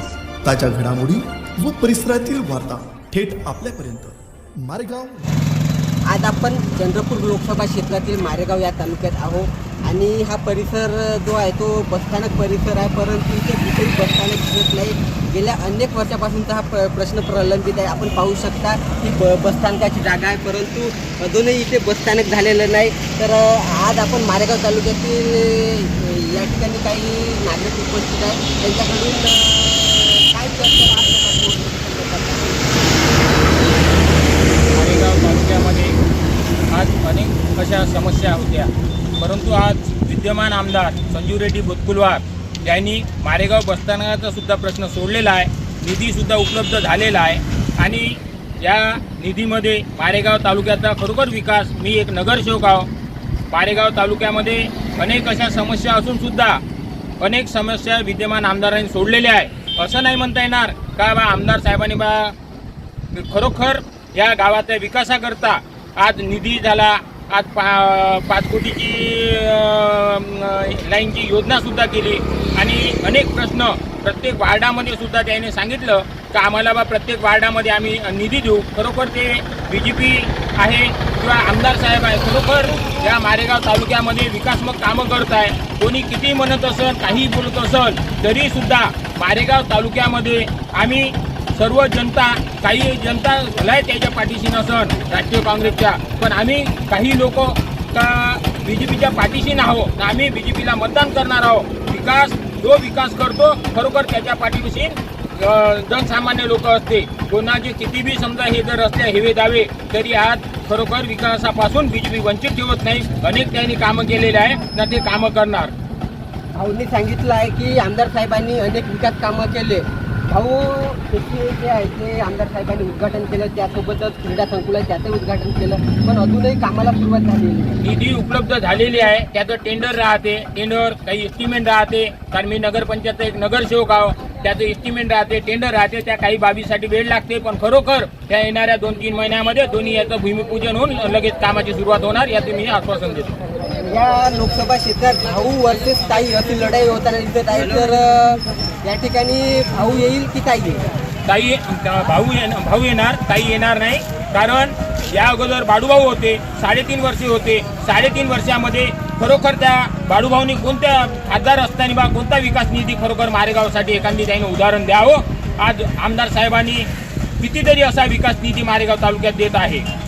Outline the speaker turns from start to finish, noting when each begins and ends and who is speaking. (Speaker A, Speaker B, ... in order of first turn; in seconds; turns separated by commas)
Speaker A: 0.4-5.3, Speaker B: 6.1-33.5, Speaker C: 34.7-36.0, Speaker C: 36.7-52.9, Speaker C: 53.5-56.6, Speaker C: 57.2-62.3, Speaker C: 63.1-115.7, Speaker B: 116.5-127.8, Speaker C: 127.8-143.3, Speaker B: 143.8-150.8, Speaker C: 151.3-166.9, Speaker C: 167.4-169.8